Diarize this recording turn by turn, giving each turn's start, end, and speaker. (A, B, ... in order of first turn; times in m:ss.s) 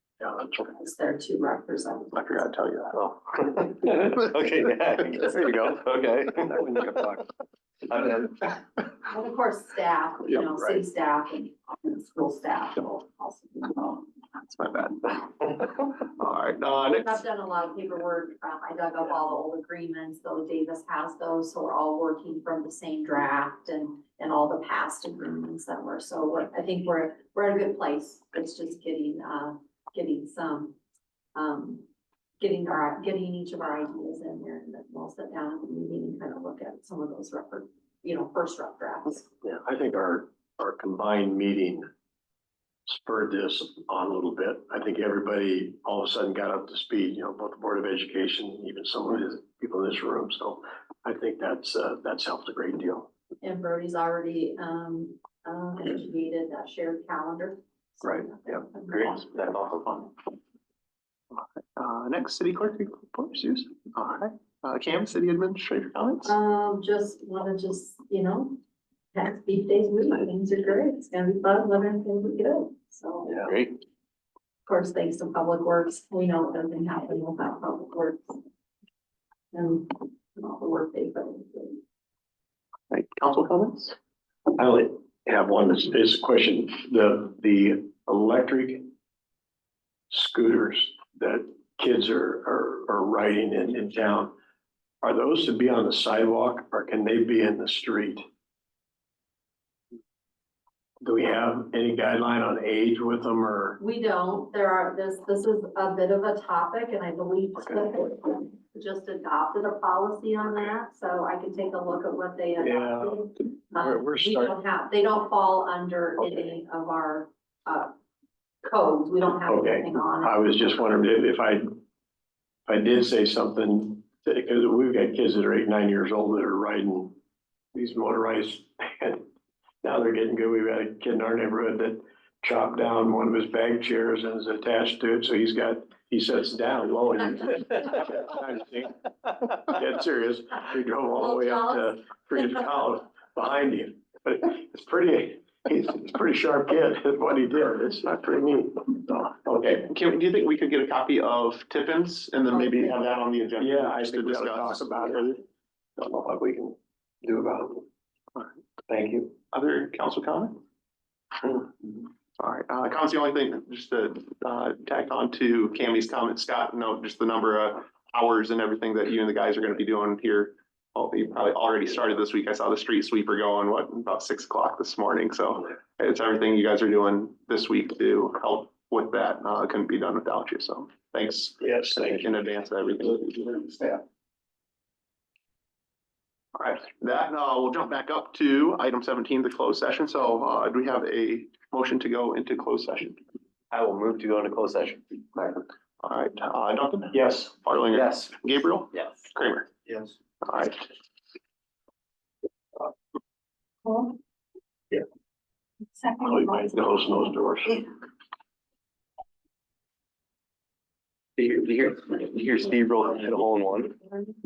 0:00.3-0:02.5 A
0:02.1-0:03.0 B
0:02.9-0:07.2 C
0:07.9-0:08.5 C
0:09.0-0:14.0 A
0:10.3-0:10.8 B
0:14.4-0:17.2 B
0:16.8-0:30.8 A
0:31.3-0:31.8 A
0:32.4-0:39.3 A
0:39.4-0:41.9 D
0:42.9-0:53.1 D
0:53.4-0:59.5 A
0:58.9-1:00.0 C
1:01.3-1:06.3 B
1:06.2-1:08.6 A
1:09.1-1:13.5 A
1:13.4-1:13.7 C
1:14.6-1:18.4 A
1:19.5-1:21.8 A
1:22.9-1:24.0 B
1:24.6-1:28.9 D
1:30.1-1:34.4 D
1:35.0-1:38.2 D
1:41.0-1:43.8 D
1:43.8-1:57.9 A
1:47.6-1:47.9 D
1:52.6-1:54.6 D
1:58.6-2:00.6 A
1:59.4-2:01.8 D
2:02.7-2:07.2 D
2:07.7-2:09.2 D
2:09.8-2:28.3 D
2:21.2-2:22.8 A
2:28.0-2:35.4 B
2:32.5-2:32.9 A
2:33.6-2:35.4 D
2:36.0-2:37.8 D
2:38.9-2:39.3 D
2:39.5-2:40.5 B
2:42.4-3:03.8 B
3:01.6-3:02.2 D
3:06.6-3:13.2 B
3:13.7-3:15.6 C
3:16.0-3:19.7 B
3:17.1-3:17.5 D
3:17.9-3:18.3 C
3:18.9-3:19.2 C
3:19.8-3:20.1 C
3:20.4-3:20.8 B
3:23.8-3:24.1 A
3:25.9-3:27.0 A
3:26.2-3:27.8 D
3:31.4-3:34.0 C